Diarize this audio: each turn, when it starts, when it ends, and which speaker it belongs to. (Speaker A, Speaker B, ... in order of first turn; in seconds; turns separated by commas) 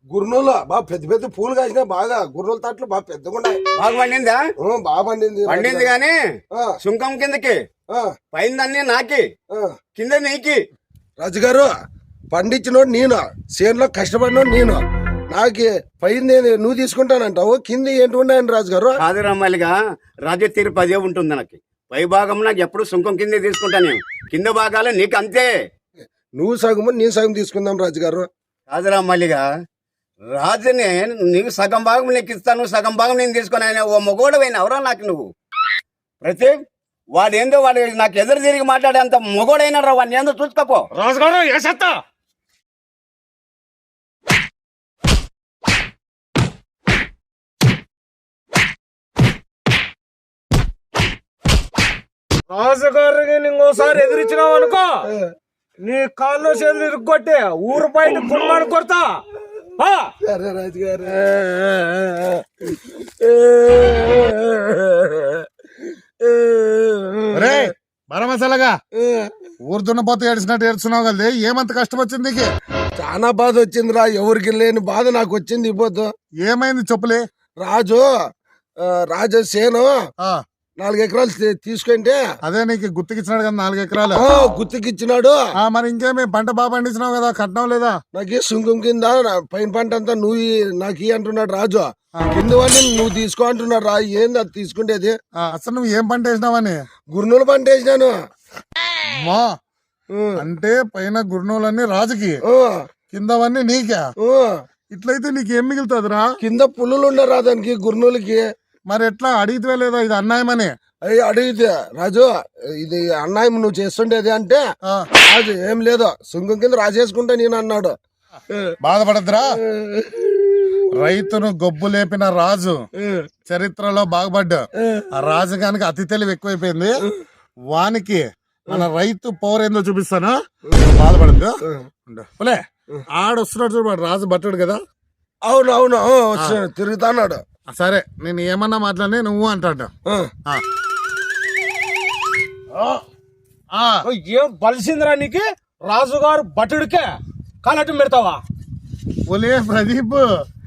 Speaker A: 0.1-3.6, Speaker B: 3.8-4.4, Speaker A: 4.6-5.9, Speaker B: 5.5-6.1, Speaker B: 6.8-7.6, Speaker B: 8.3-9.2, Speaker B: 9.9-10.6, Speaker A: 11.2-11.7, Speaker A: 12.3-18.9, Speaker B: 19.0-19.8, Speaker B: 20.2-25.5, Speaker A: 26.4-28.3, Speaker B: 28.7-29.4, Speaker B: 30.3-35.3, Speaker B: 36.2-36.5, Speaker B: 37.1-40.9, Speaker C: 41.0-42.0, Speaker C: 52.5-55.1, Speaker C: 55.8-59.2, Speaker C: 59.8-60.1, Speaker A: 60.2-65.5, Speaker A: 66.2-67.7, Speaker D: 67.3-68.7, Speaker A: 69.0-69.3, Speaker D: 69.7-72.5, Speaker A: 73.0-76.1, Speaker D: 76.4-77.2, Speaker A: 77.6-78.0, Speaker A: 78.8-79.9, Speaker A: 80.8-82.2, Speaker D: 82.4-84.2, Speaker A: 84.2-85.4, Speaker D: 85.6-88.0, Speaker A: 88.1-95.1, Speaker D: 95.4-96.8, Speaker A: 97.1-98.1, Speaker D: 99.1-99.5, Speaker A: 100.1-100.4, Speaker D: 100.4-102.4, Speaker A: 102.5-102.9, Speaker D: 103.1-104.1, Speaker A: 104.2-104.6, Speaker D: 104.9-106.2, Speaker A: 106.4-108.4, Speaker D: 108.9-110.7, Speaker A: 111.0-114.6, Speaker A: 115.2-117.9, Speaker D: 118.8-119.6, Speaker A: 119.6-120.8, Speaker D: 120.9-122.8, Speaker A: 123.0-123.3, Speaker D: 123.5-127.0, Speaker A: 124.8-125.0, Speaker D: 127.7-132.6, Speaker D: 133.1-134.8, Speaker A: 135.5-137.4, Speaker D: 137.7-139.9, Speaker A: 140.1-140.3, Speaker D: 143.7-144.0, Speaker C: 144.1-148.4, Speaker D: 149.3-150.2